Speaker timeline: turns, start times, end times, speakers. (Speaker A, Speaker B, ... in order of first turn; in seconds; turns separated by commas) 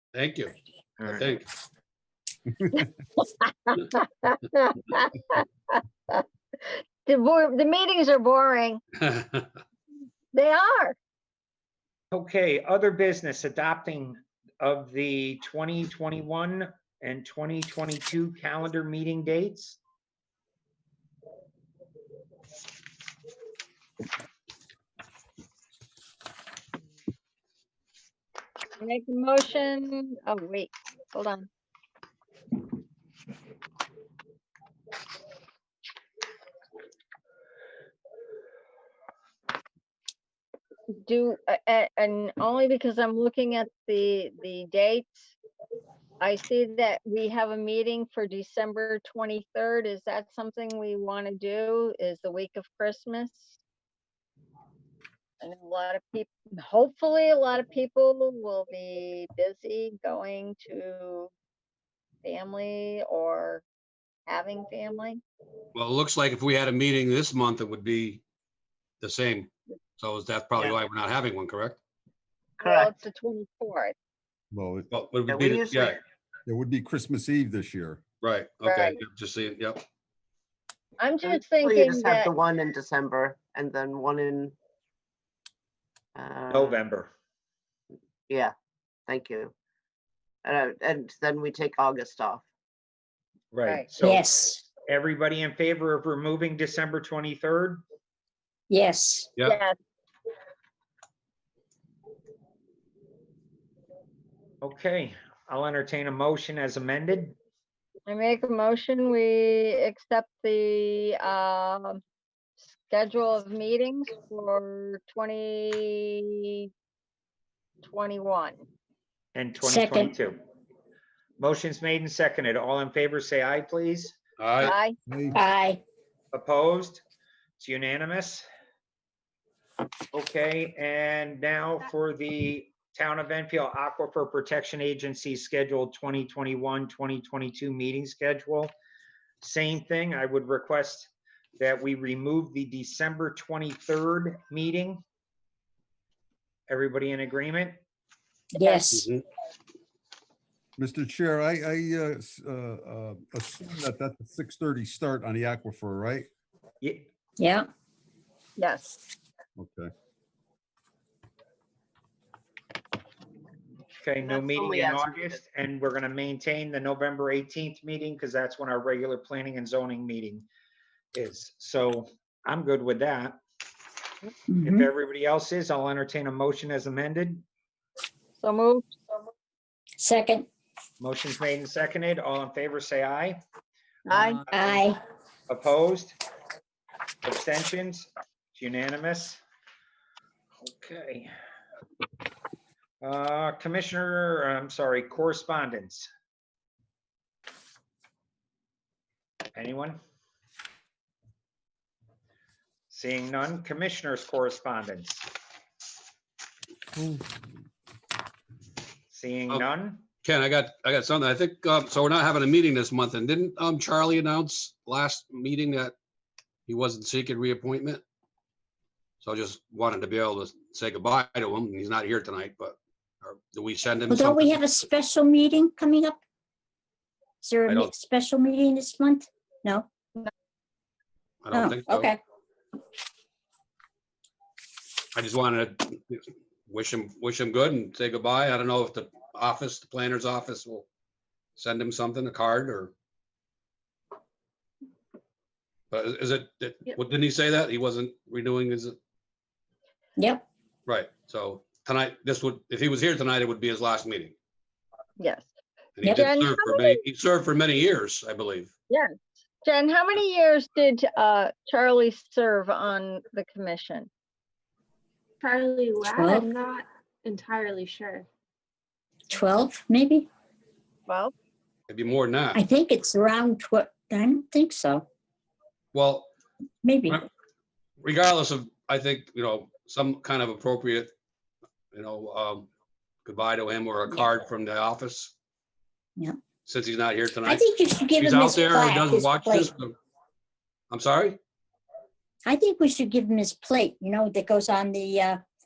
Speaker A: 0.1-1.4, Speaker B: 1.0-1.3, Speaker C: 3.4-6.2, Speaker C: 7.0-8.8, Speaker A: 9.0-9.5, Speaker C: 10.3-10.9, Speaker B: 12.1-19.8, Speaker C: 28.8-31.5, Speaker C: 41.0-45.3, Speaker C: 46.2-53.6, Speaker C: 55.4-61.3, Speaker C: 62.2-63.6, Speaker C: 64.3-65.2, Speaker A: 65.7-68.2, Speaker A: 69.0-71.8, Speaker C: 72.6-73.9, Speaker D: 72.6-73.0, Speaker E: 74.5-74.9, Speaker A: 74.9-76.0, Speaker D: 75.3-76.0, Speaker E: 76.5-78.0, Speaker A: 78.2-79.8, Speaker C: 78.6-79.0, Speaker C: 81.0-82.3, Speaker D: 81.2-84.5, Speaker D: 86.1-86.8, Speaker B: 86.5-87.1, Speaker D: 89.1-89.5, Speaker D: 90.4-92.4, Speaker B: 93.5-94.2, Speaker C: 93.7-93.9, Speaker F: 94.0-94.6, Speaker B: 94.9-97.8, Speaker F: 98.7-99.3, Speaker C: 99.4-99.7, Speaker B: 104.6-107.3, Speaker C: 108.1-112.0, Speaker C: 112.6-116.7, Speaker C: 117.8-118.6, Speaker B: 119.3-120.4, Speaker F: 119.6-120.1, Speaker B: 121.4-124.2, Speaker A: 124.4-124.8, Speaker C: 124.6-125.0, Speaker E: 125.0-125.4, Speaker F: 125.3-125.8, Speaker B: 126.3-127.0, Speaker B: 127.6-128.4, Speaker B: 130.1-138.7, Speaker B: 139.4-145.0, Speaker B: 146.7-147.8, Speaker F: 148.5-149.1, Speaker C: 148.6-148.9, Speaker A: 148.9-149.2, Speaker E: 150.8-156.3, Speaker F: 157.4-157.7, Speaker C: 158.6-159.0, Speaker E: 159.6-159.9, Speaker B: 164.0-170.4, Speaker D: 164.2-165.4, Speaker B: 171.1-173.4, Speaker F: 174.5-174.9, Speaker B: 174.6-177.4, Speaker C: 178.4-178.9, Speaker F: 180.0-180.5, Speaker B: 181.0-183.4, Speaker C: 184.1-184.4, Speaker B: 184.1-184.8, Speaker F: 184.5-185.0, Speaker B: 185.5-186.2, Speaker B: 187.2-189.4, Speaker B: 190.6-191.3, Speaker B: 193.0-196.1, Speaker B: 199.5-200.0, Speaker B: 202.9-205.2, Speaker B: 209.1-210.0, Speaker A: 210.2-215.9, Speaker A: 216.7-218.0, Speaker A: 219.2-224.6, Speaker F: 224.1-226.2, Speaker F: 227.4-230.3, Speaker A: 231.4-232.1, Speaker F: 231.5-232.2, Speaker A: 235.1-240.8, Speaker A: 241.6-242.9, Speaker A: 245.9-249.0, Speaker F: 250.2-250.4, Speaker A: 250.9-254.3, Speaker C: 255.2-255.5, Speaker A: 256.0-258.7, Speaker C: 256.1-257.0, Speaker C: 258.9-264.1, Speaker G: 265.4-268.3, Speaker F: 266.0-266.5, Speaker F: 269.3-270.3, Speaker C: 271.1-271.3, Speaker A: 271.9-272.6, Speaker F: 272.5-275.1, Speaker A: 275.9-276.3, Speaker F: 276.8-277.2, Speaker A: 278.0-281.1, Speaker A: 281.9-282.7, Speaker A: 283.2-285.3, Speaker A: 286.6-287.6, Speaker F: 287.4-289.7, Speaker A: 288.2-289.9, Speaker A: 290.9-291.4, Speaker F: 292.4-295.4